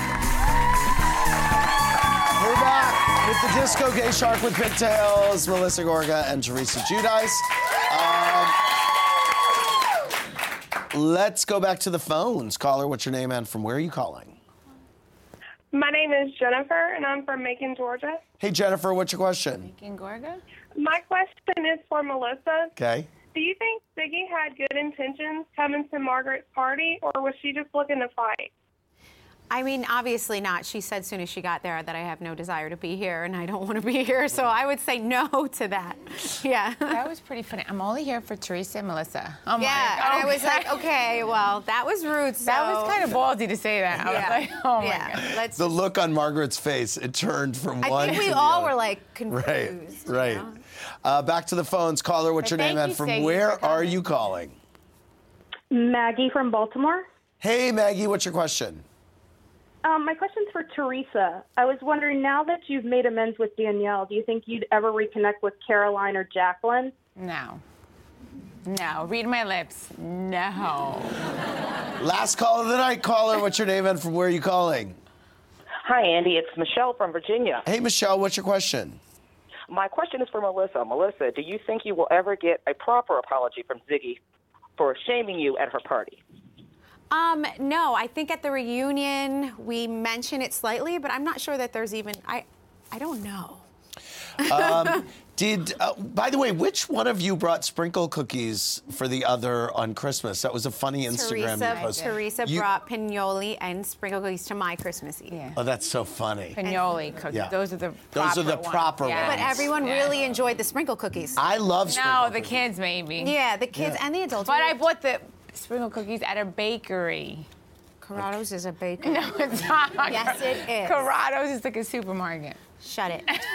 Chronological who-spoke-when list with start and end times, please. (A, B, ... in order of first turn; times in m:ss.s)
0:02.4-0:08.6 A
0:10.9-0:14.4 A
0:15.7-0:18.2 B
0:18.4-0:19.7 A
0:19.6-0:20.4 C
0:20.8-0:22.7 B
0:22.8-0:23.1 A
0:23.3-0:28.5 B
0:29.5-0:37.0 D
0:36.9-0:40.8 C
0:39.6-0:43.2 D
0:42.4-0:45.3 C
0:43.9-0:44.3 A
0:44.0-0:45.7 D
0:45.1-0:48.8 A
0:47.8-0:50.6 D
0:49.3-0:50.5 A
0:51.0-0:54.6 A
0:52.4-0:54.0 C
0:55.7-0:57.1 E
0:57.4-0:58.8 A
0:59.8-1:06.9 E
1:07.2-1:07.6 C
1:08.6-1:11.2 C
1:12.0-1:15.0 A
1:15.8-1:17.6 F
1:17.6-1:19.0 A
1:19.7-1:24.2 F
1:24.8-1:26.2 F
1:27.1-1:33.6 D
1:34.4-1:42.7 A
1:41.1-1:45.5 D
1:41.7-1:42.2 C
1:45.3-1:45.6 C
1:45.6-1:46.6 A
1:46.6-1:50.2 C
1:46.6-1:47.0 D
1:48.1-1:49.7 A
1:49.1-1:51.4 D
1:51.4-1:52.6 A
1:51.9-1:53.4 C
1:53.2-1:54.8 D
1:53.7-1:54.0 A
1:54.5-1:57.5 C
1:58.0-1:59.4 D
1:59.0-2:02.6 C
2:00.0-2:01.0 D
2:02.8-2:03.3 D